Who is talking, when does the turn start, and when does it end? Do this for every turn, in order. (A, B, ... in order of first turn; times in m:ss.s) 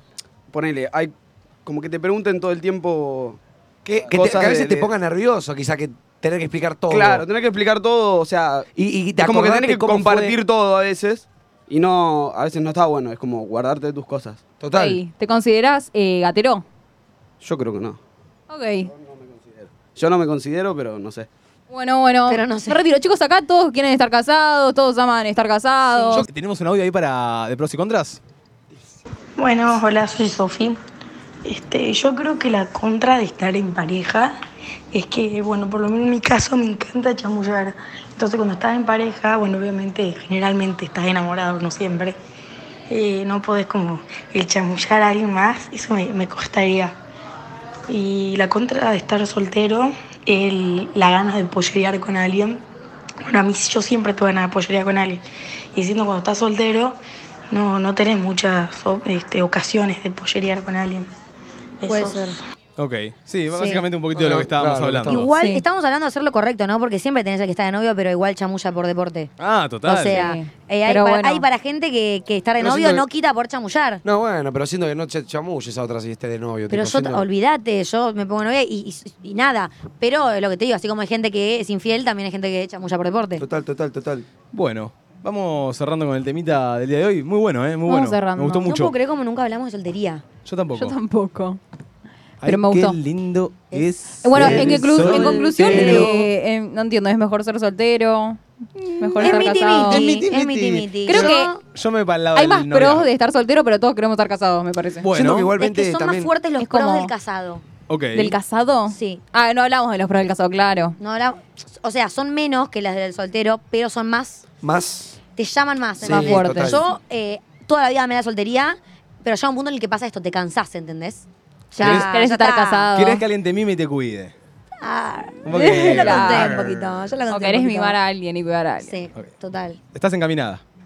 0:00.5-0:01.1 A
0:01.6-0:03.4 A
0:03.8-0:07.2 B
0:04.0-0:04.9 A
0:06.9-0:08.6 A
0:08.8-0:10.4 B
0:09.2-0:14.4 A
0:14.6-0:15.0 B
0:14.8-0:16.6 C
0:17.4-0:18.0 A
0:18.5-0:18.9 C
0:18.9-0:21.3 A
0:21.7-0:26.2 C
0:22.3-0:22.8 D
0:26.2-0:28.2 E
0:29.4-0:30.8 F
0:31.4-0:34.4 F
0:34.9-0:42.2 F
0:42.9-0:46.9 F
0:47.9-0:52.6 F
0:53.2-0:55.2 F
0:55.7-0:57.0 F
0:57.5-1:01.1 F
1:01.8-1:02.4 F
1:01.8-1:02.4 D
1:02.8-1:05.3 E
1:03.5-1:03.8 D
1:04.1-1:05.1 B
1:05.1-1:09.3 D
1:05.4-1:05.6 C
1:09.4-1:10.3 E
1:09.8-1:14.0 D
1:10.1-1:11.4 C
1:12.6-1:13.0 B
1:14.0-1:17.3 B
1:16.7-1:23.4 D
1:23.4-1:24.3 B
1:24.5-1:28.9 E
1:27.9-1:28.7 C
1:28.6-1:30.2 D
1:30.4-1:31.0 E
1:30.8-1:31.6 C
1:32.4-1:36.2 E
1:32.4-1:33.0 C
1:33.7-1:36.1 D
1:34.2-1:40.2 C
1:38.8-1:41.6 D
1:39.2-1:43.1 E
1:41.0-1:41.5 C
1:42.3-1:45.1 C
1:45.0-1:45.5 E
1:45.1-1:46.3 B
1:45.6-1:47.6 D
1:46.6-1:47.1 C
1:47.9-1:48.4 E
1:48.1-1:51.0 C
1:48.9-1:49.2 D
1:51.0-1:54.4 D
1:54.6-1:55.2 B
1:55.3-2:02.9 D
1:56.0-1:56.8 B
1:56.0-1:56.8 C
2:01.8-2:03.2 C
2:01.8-2:02.1 E
2:02.9-2:04.3 E
2:04.8-2:08.0 D
2:05.4-2:06.9 E
2:05.5-2:06.6 C
2:07.3-2:08.9 C
2:08.8-2:09.8 D
2:09.9-2:10.6 E